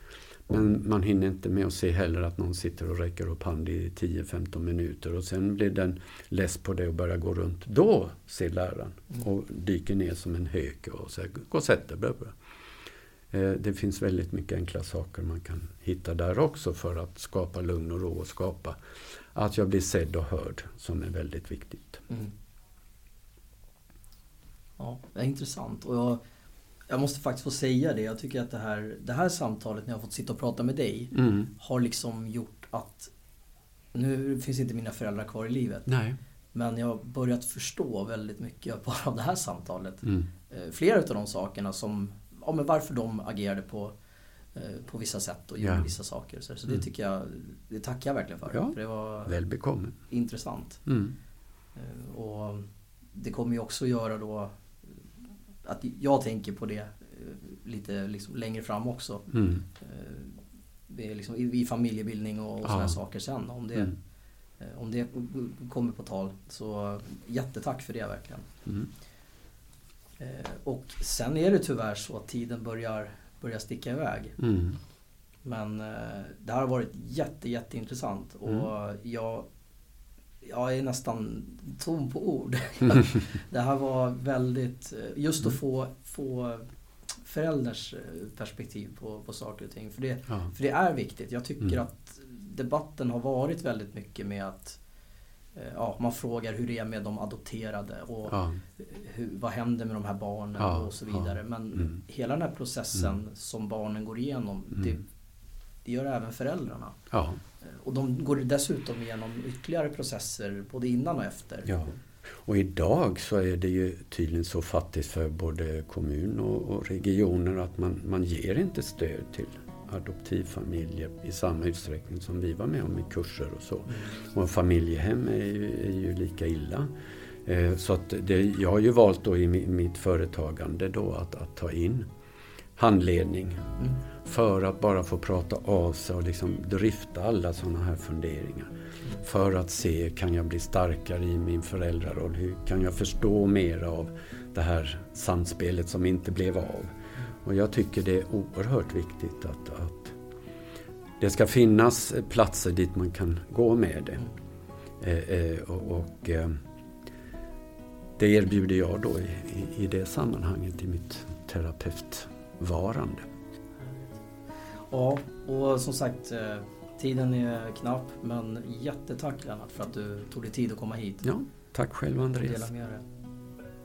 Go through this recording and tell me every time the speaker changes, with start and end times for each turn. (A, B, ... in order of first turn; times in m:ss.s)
0:00.5-0:12.4 A
0:13.3-0:18.8 A
0:19.3-0:22.0 A
0:24.8-0:26.2 B
0:26.9-0:33.1 B
0:31.2-0:31.5 A
0:33.9-0:35.9 B
0:35.9-0:36.2 A
0:36.5-0:44.0 B
0:44.6-0:49.4 B
0:45.6-0:45.9 A
0:48.5-0:50.0 A
0:50.1-0:50.8 B
0:50.9-0:51.2 A
0:51.8-0:54.6 B
0:55.6-0:59.3 B
0:59.3-0:59.6 A
0:59.8-1:04.0 B
1:02.6-1:03.0 A
1:04.6-1:08.5 B
1:10.2-1:14.4 B
1:14.4-1:14.8 A
1:15.4-1:19.5 B
1:20.4-1:26.7 B
1:27.2-1:34.8 B
1:35.6-1:45.1 B
1:38.3-1:38.6 A
1:40.6-1:41.8 A
1:45.8-1:47.0 B
1:47.1-1:47.4 A
1:47.6-1:51.8 B
1:52.4-2:06.9 A
2:07.4-2:12.1 A
2:12.8-2:30.2 A
2:31.2-2:34.3 A
2:35.0-2:36.6 A
2:38.2-2:43.3 A
2:43.8-2:44.2 B
2:44.9-2:51.3 B
2:51.2-2:52.7 A
2:52.3-2:53.0 B